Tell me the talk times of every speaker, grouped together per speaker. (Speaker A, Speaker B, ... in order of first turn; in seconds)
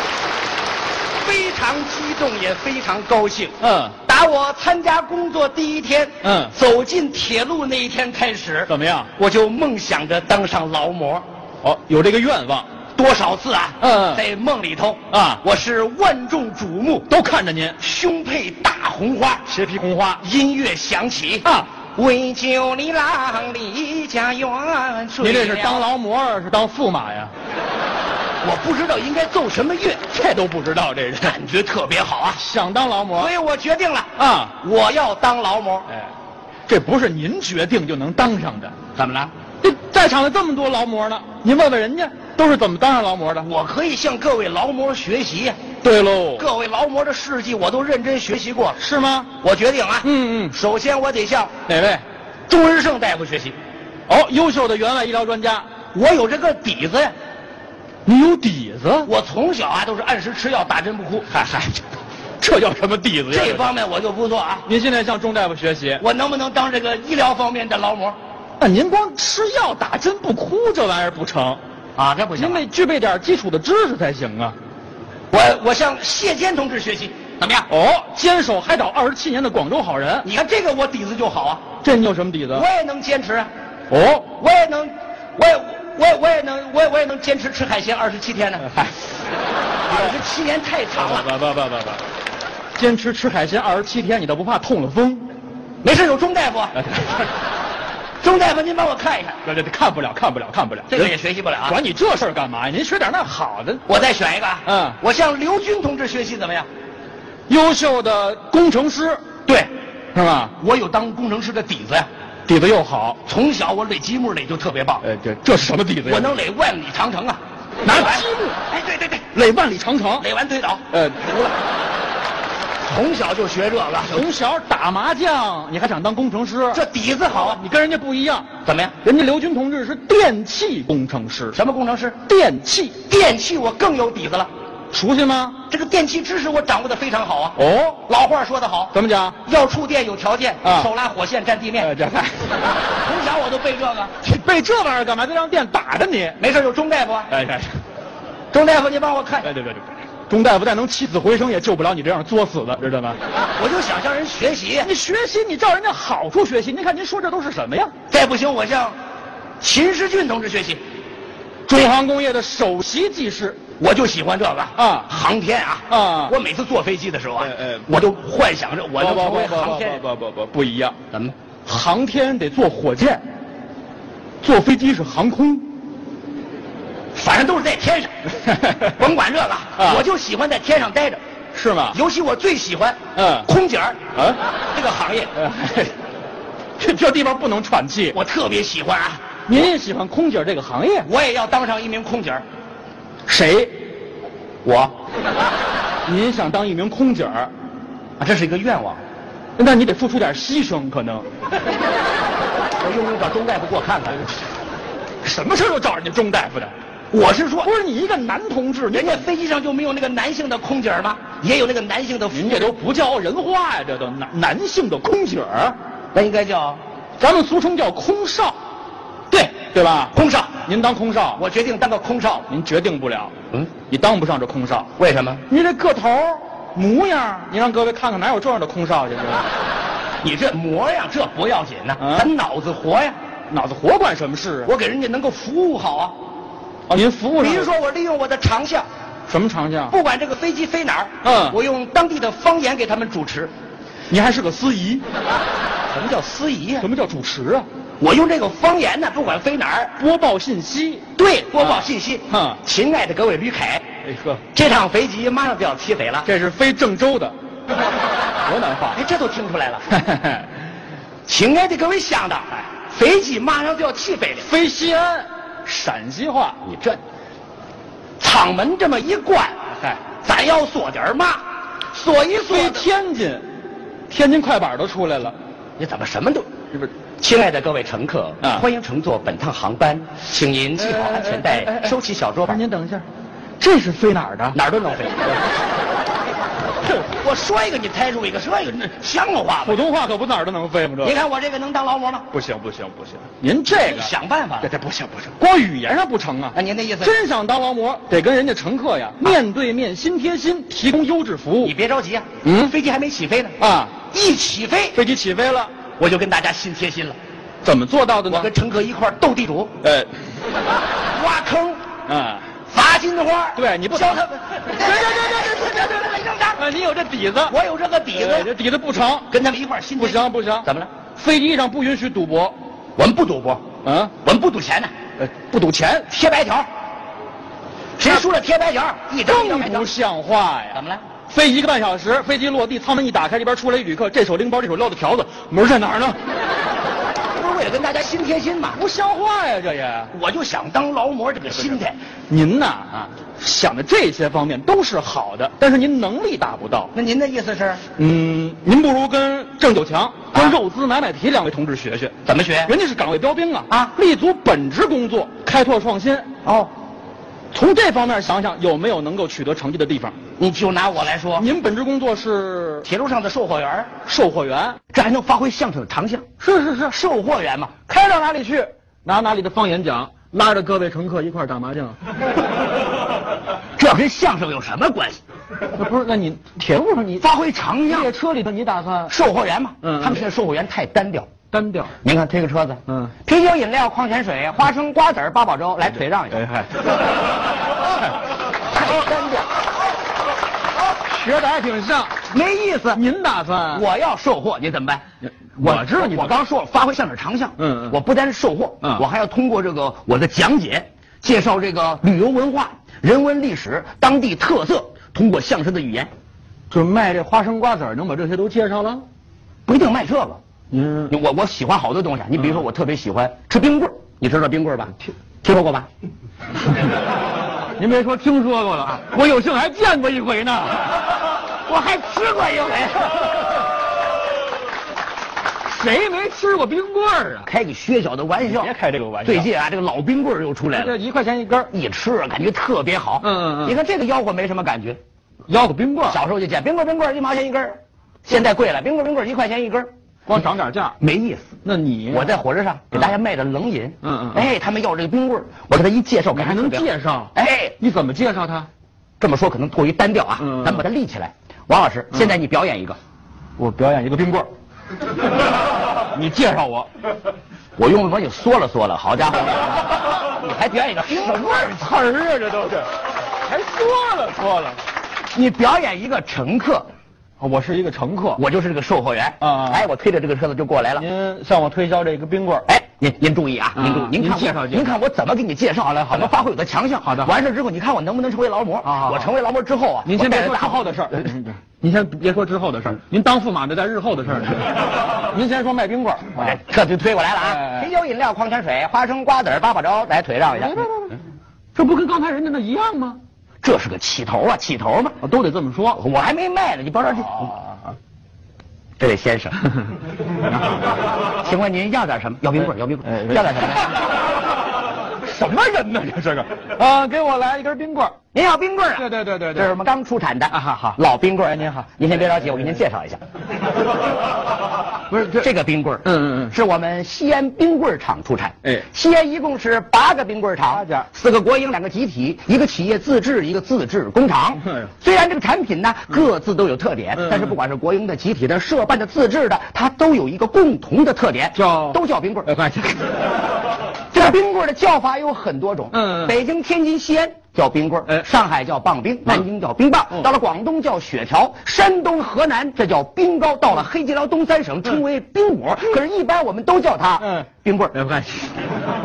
Speaker A: 1.2-11.2, 12.9-17.1, 17.8-19.5, 20.2-25.9, 28.4-30.1, 31.2-32.5, 33.1-35.9, 38.9-39.3, 43.4-45.6, 46.3-48.8, 49.4-51.5, 52.5-53.6, 55.9-57.1, 59.0-61.3, 63.3-64.7, 66.0-68.2, 72.0-72.7, 75.3-77.7, 80.2-81.6, 82.5-83.5, 84.3-88.7, 89.8-91.3, 95.8-96.8, 98.2-99.4, 100.9-101.8, 103.8-106.7, 110.6-112.1, 113.2-115.0, 116.0-119.0, 120.2-120.8, 122.8-124.3, 126.7-127.6, 128.6-128.9, 131.5-132.2, 133.0-134.5, 135.7-141.9, 142.8-144.1, 146.4-147.3, 148.5-149.5, 153.5-154.9, 158.1-158.9, 159.6-160.8, 163.8-170.0, 177.1-178.1, 178.8-181.2, 181.9-184.0, 184.7-185.4, 188.1-189.2, 191.0-192.4, 194.6-194.9, 198.2-199.0, 202.8-204.3, 207.1-207.7, 208.9-212.7, 216.1-216.8, 220.1-220.6, 221.3-222.5, 225.0-225.4, 230.2-233.2, 234.6-236.2, 237.4-238.9, 239.9-243.5, 245.9-246.9, 248.0-250.0, 251.2-253.8, 254.5-256.3, 258.9-259.9, 261.2-264.5, 266.6-267.0, 268.2-269.6, 270.2-272.9, 275.8-276.5, 277.2-282.6, 284.5-285.3, 287.0-289.9, 291.0-292.3, 293.7-294.7, 296.5-297.1, 301.6-305.0, 306.0-307.2, 308.3-309.7, 311.1-311.8, 312.7-316.6, 317.4-318.5, 319.3-320.9, 323.0-323.6, 324.2-324.9, 326.1-326.7, 328.0-329.9, 330.7-331.0, 337.3-338.9, 340.1-342.0, 346.9-347.8, 352.2-352.7, 353.7-353.9, 356.4-356.7, 360.4-361.5, 362.8-363.9, 364.9-367.7, 373.8-375.2, 377.2-378.1, 379.1-381.3, 382.0-386.5, 388.7-389.6, 392.2-393.0, 393.7-395.0, 395.6-406.1, 409.6-410.4, 411.1-415.9, 421.6-423.5, 427.4-431.0, 431.7-435.0, 436.0-439.9, 441.0-441.5, 442.1-447.8, 449.2-453.0, 457.8-461.8, 465.3-466.9, 468.4-471.1, 472.7-480.9, 486.3-490.9, 493.6-495.2, 495.9-497.6, 499.0-499.6, 501.4-503.9, 508.3-513.2, 515.3-532.5, 534.1-548.0
Speaker B: 3.6-4.0, 6.2-6.5, 8.7-9.1, 11.6-12.7, 13.8-14.2, 15.1-15.4, 17.1-17.8, 19.5-20.2, 21.4-21.7, 25.2-27.3, 30.1-31.3, 32.4-33.3, 34.2-34.6, 36.7-38.7, 39.6-43.5, 45.8-46.4, 48.8-49.3, 50.0-50.5, 51.7-52.0, 54.1-55.6, 58.0-59.1, 61.3-61.8, 62.4-63.7, 64.7-66.0, 68.6-71.6, 72.3-74.5, 77.7-80.2, 81.8-82.6, 83.9-84.3, 91.0-92.0, 92.8-95.3, 96.8-97.3, 99.4-101.2, 101.7-103.8, 104.7-105.0, 107.5-109.2, 110.1-110.5, 112.5-113.2, 115.0-116.3, 117.8-120.2, 120.9-121.6, 124.1-128.5, 129.0-131.6, 132.3-133.0, 134.9-135.6, 137.6-138.0, 138.9-139.4, 140.6-140.9, 141.8-142.5, 144.2-146.4, 147.3-147.8, 149.4-153.2, 154.8-157.9, 161.7-163.6, 164.8-165.1, 165.9-166.3, 167.4-167.8, 169.0-170.9, 171.7-173.2, 174.4-175.7, 179.8-180.0, 181.5-181.9, 183.2-183.5, 185.4-185.9, 186.8-188.2, 189.5-191.1, 193.3-193.7, 196.1-197.5, 199.6-201.2, 205.2-206.7, 207.6-209.3, 212.3-215.8, 217.2-218.6, 219.3-220.1, 220.7-221.4, 222.5-223.3, 223.9-224.9, 225.5-229.4, 232.0-232.3, 233.5-234.7, 236.9-237.7, 239.3-239.9, 241.2-241.6, 244.1-245.0, 246.8-247.7, 250.0-252.6, 254.0-254.4, 256.2-257.3, 258.4-259.0, 259.9-260.4, 264.4-266.6, 272.5-273.4, 274.1-275.3, 280.8-281.9, 282.5-283.0, 283.6-284.6, 289.6-291.2, 292.3-301.7, 302.4-302.7, 303.6-303.9, 304.9-305.7, 307.6-308.5, 309.8-310.1, 312.1-312.4, 313.6-315.8, 316.6-317.5, 318.1-319.3, 320.0-322.5, 323.8-324.1, 325.2-326.1, 329.2-336.2, 338.8-340.1, 342.3-346.9, 348.0-352.1, 352.7-356.3, 357.5-360.1, 361.4-362.9, 364.0-364.8, 366.4-366.9, 367.9-372.0, 375.8-377.2, 377.9-379.1, 379.8-380.2, 381.5-381.9, 386.3-387.0, 391.0-392.2, 392.9-393.8, 395.6-396.4, 397.6-397.9, 406.7-409.0, 410.7-411.1, 417.8-421.1, 425.7-427.5, 428.4-429.5, 430.7-431.7, 433.2-433.7, 435.5-436.2, 440.3-441.0, 441.6-442.3, 444.0-444.5, 446.3-448.7, 450.4-450.8, 453.6-454.5, 456.1-456.9, 461.1-462.9, 463.4-464.8, 467.4-468.4, 469.4-469.9, 470.9-472.7, 473.7-474.9, 476.1-476.4, 477.0-477.4, 478.8-479.3, 480.0-486.6, 487.4-487.9, 490.5-491.1, 491.7-493.2, 495.2-496.0, 497.3-497.8, 503.1-503.7, 505.2-508.1, 509.0-509.7, 510.5-512.6, 515.1-515.5, 516.0-516.5, 520.7-521.0, 527.2-527.5, 531.5-533.3, 535.9-536.4, 547.2-548.5